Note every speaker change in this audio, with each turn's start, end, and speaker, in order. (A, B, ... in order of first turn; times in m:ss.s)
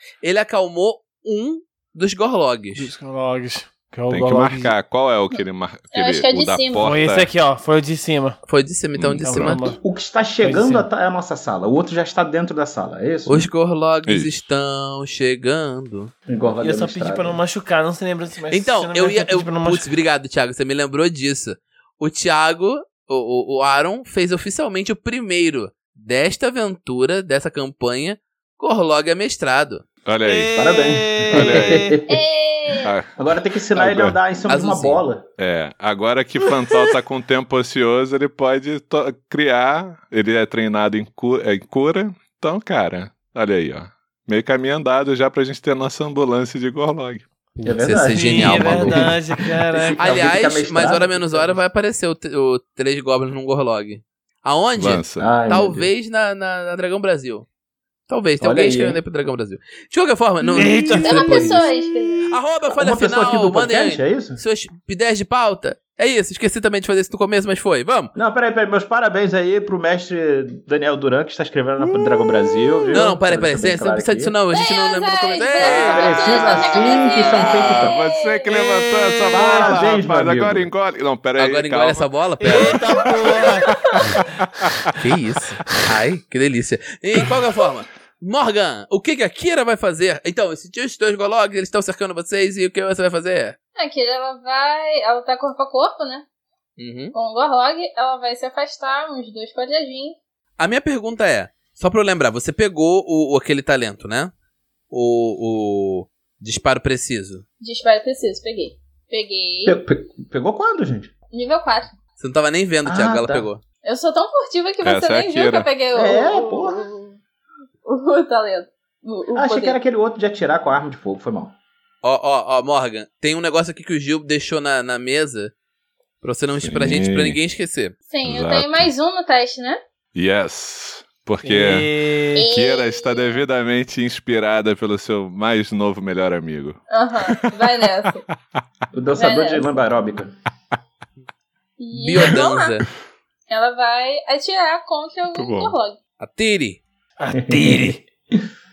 0:00.2-0:02.9 A
0:02.7-0:04.7 B
0:04.1-0:07.3 C
0:05.9-0:06.9 D
0:06.8-0:08.4 B
0:08.5-0:09.6 A
0:09.0-0:09.6 C
0:09.2-0:09.8 B
0:09.7-0:13.5 E
0:10.4-0:10.9 B
0:13.2-0:16.1 A
0:14.0-0:14.4 C
0:16.3-0:17.4 E
0:16.6-0:19.9 B
0:18.5-0:29.8 A
0:30.0-0:30.5 C
0:30.2-0:32.0 B
0:30.5-0:32.2 E
0:31.3-0:32.0 C
0:32.1-0:32.9 D
0:32.8-0:33.1 C
0:33.2-0:35.2 E
0:33.7-0:34.2 C
0:34.5-0:35.0 A
0:35.4-0:47.2 C
0:47.6-0:51.6 E
0:47.8-0:49.1 A
0:47.9-0:50.3 B
0:50.0-0:57.5 A
0:54.8-0:55.3 C
0:55.2-0:55.9 E
0:58.1-1:01.6 A
0:58.4-0:59.0 E
1:00.5-1:02.3 B
1:01.0-1:02.3 D
1:02.3-1:08.1 A
1:02.7-1:04.4 E
1:08.1-1:14.3 E
1:12.9-1:17.1 A
1:14.5-1:18.8 D
1:15.6-1:18.0 E
1:17.3-1:22.6 C
1:19.2-1:19.8 B
1:19.3-1:20.7 E
1:21.4-1:23.1 A
1:22.4-1:24.2 B
1:23.4-1:24.2 D
1:24.1-1:25.0 C
1:25.0-1:33.6 A
1:33.8-1:36.2 D
1:36.8-1:37.1 A
1:37.1-1:40.2 D
1:40.6-1:44.3 A
1:44.9-1:47.4 A
1:47.6-1:49.8 D
1:49.6-1:51.1 E
1:51.3-1:51.9 D
1:52.2-1:53.6 A
1:52.8-1:53.5 E
1:53.8-1:57.2 D
1:54.8-1:55.7 C
1:55.9-1:56.9 E
1:57.8-1:59.8 D
1:59.3-2:01.5 E
2:02.0-2:05.5 A
2:06.2-2:07.9 A
2:06.6-2:07.4 C
2:08.1-2:09.8 D
2:08.2-2:08.9 C
2:10.1-2:18.0 C
2:11.4-2:12.4 B
2:12.3-2:13.4 D
2:16.9-2:18.2 D
2:18.9-2:20.3 E
2:19.1-2:19.8 D
2:21.8-2:22.8 D
2:21.9-2:22.9 A
2:23.5-2:26.0 D
2:25.3-2:25.8 C
2:26.2-2:26.8 A
2:27.2-2:28.0 B
2:27.4-2:28.4 E